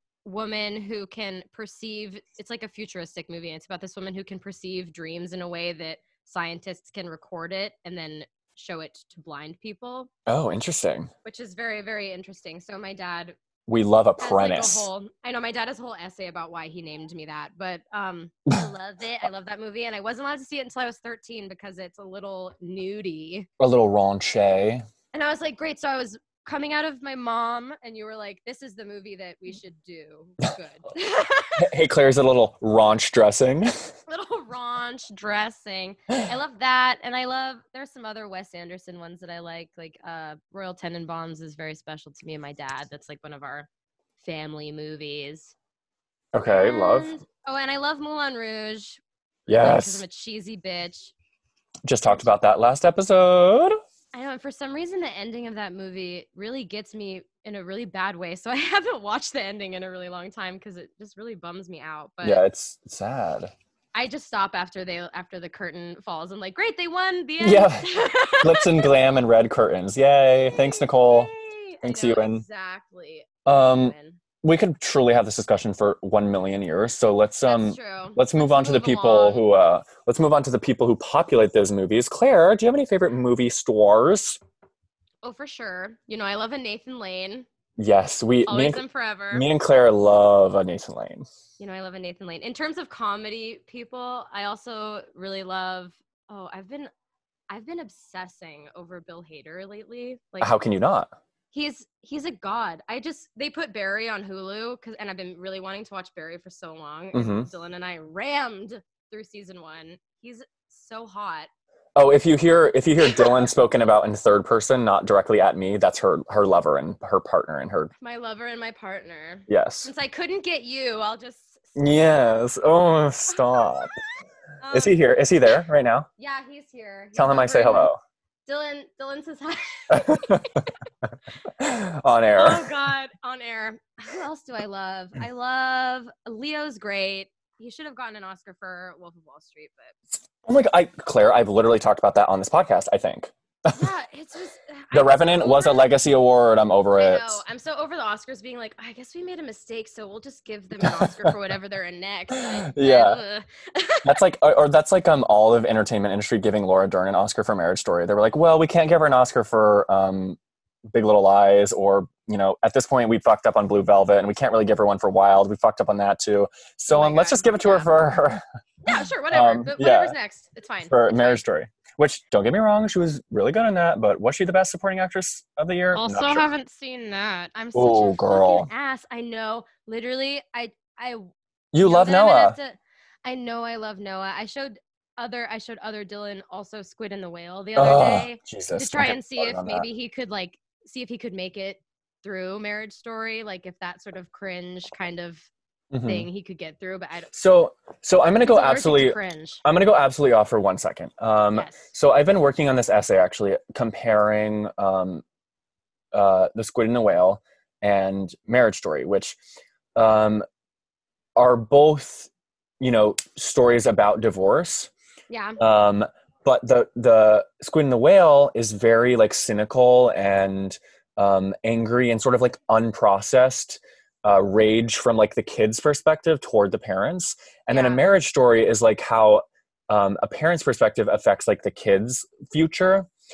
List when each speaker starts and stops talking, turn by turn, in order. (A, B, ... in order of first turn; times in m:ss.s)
0:00.2-0:10.1 A
0:10.3-0:11.1 B
0:11.2-0:13.4 A
0:13.7-0:14.9 B
0:14.2-0:23.5 A
0:23.6-0:24.8 B
0:25.1-0:31.7 A
0:31.6-0:33.7 B
0:34.1-0:43.7 A
0:44.2-0:45.6 A
0:46.3-0:47.1 B
0:46.5-0:49.0 A
0:49.5-0:50.0 B
0:49.5-0:51.1 A
0:51.9-0:53.8 B
0:54.1-1:02.4 A
1:02.2-1:03.5 B
1:03.9-1:08.9 A
1:07.4-1:12.4 B
1:10.5-1:14.2 A
1:13.5-1:24.4 B
1:17.5-1:19.5 A
1:25.2-1:27.5 A
1:27.8-1:31.3 B
1:28.5-1:29.5 A
1:31.6-1:36.9 A
1:37.5-1:40.6 A
1:40.4-1:41.1 B
1:41.5-1:51.5 A
1:47.1-1:47.5 B
1:52.0-1:57.9 B
1:53.0-1:53.5 A
1:58.0-2:01.8 A
1:59.5-1:59.9 B
2:01.8-2:04.0 B
2:03.4-2:03.8 A
2:04.6-2:05.0 A
2:04.7-2:06.1 B
2:06.2-2:07.9 A
2:07.2-2:08.0 B
2:08.5-2:10.7 A
2:09.9-2:10.6 B
2:11.6-2:12.7 B
2:12.3-2:20.0 A
2:20.4-2:23.9 B
2:23.7-2:25.9 A
2:24.9-2:27.4 B
2:27.0-2:34.2 A
2:30.8-2:31.3 B
2:32.3-2:33.2 B
2:34.0-2:40.4 B
2:40.9-2:48.4 B
2:46.9-2:48.0 A
2:48.8-2:51.4 A
2:49.3-2:50.2 B
2:50.9-2:56.5 B
2:55.9-3:01.2 A
2:57.8-2:58.7 B
3:01.7-3:02.6 B
3:01.8-3:15.5 A
3:07.8-3:09.9 B
3:15.9-3:16.3 B
3:16.0-3:17.3 A
3:17.3-3:25.2 B
3:18.4-3:19.6 A
3:21.5-3:21.8 A
3:26.1-3:29.4 B
3:30.0-3:30.4 B
3:31.4-3:34.9 B
3:35.3-3:35.6 A
3:35.6-3:53.1 B
3:47.7-3:48.1 A